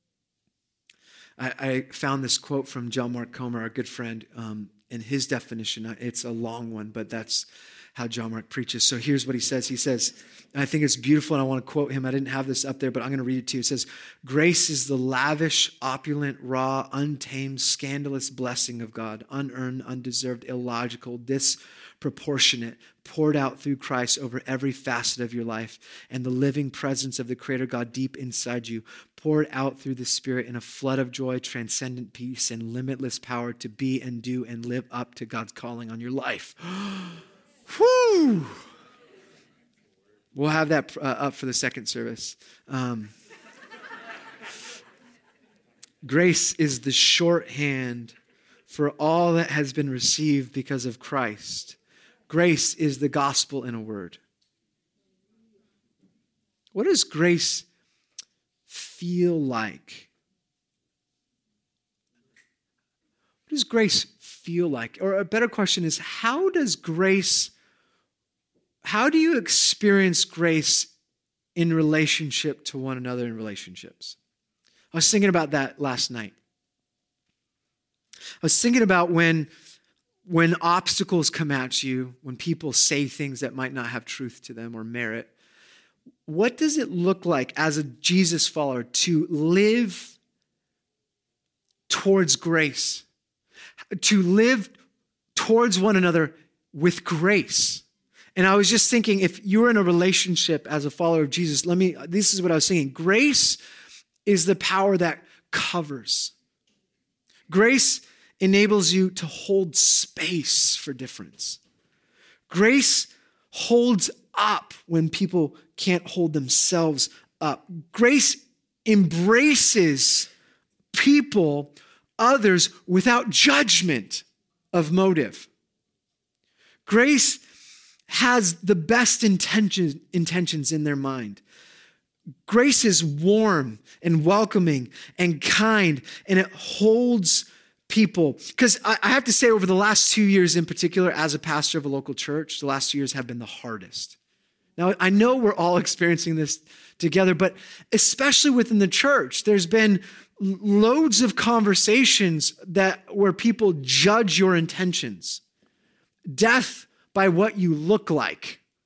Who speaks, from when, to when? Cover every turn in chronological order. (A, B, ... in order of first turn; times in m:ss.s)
0:01.4-0:38.6 A
0:40.3-0:43.1 A
0:46.0-0:48.1 A
0:48.7-0:51.8 A
0:52.3-0:54.2 A
0:56.7-0:57.6 A
0:58.7-1:00.1 A
1:03.5-1:07.5 A
1:08.8-1:10.9 A
1:11.6-1:14.2 A
1:14.9-1:16.3 A
1:18.4-1:19.5 A
1:20.2-1:25.3 A
1:26.2-1:30.2 A
1:31.9-1:33.0 A
1:34.0-1:34.7 A
1:35.4-1:37.8 A
1:38.4-1:43.6 A
1:44.2-1:46.3 A
1:47.5-1:51.6 A
1:52.5-2:00.3 A
2:00.9-2:05.5 A
2:06.8-2:07.4 A
2:08.1-2:11.4 A
2:12.4-2:24.2 A
2:24.8-2:35.4 A
2:36.3-2:38.6 A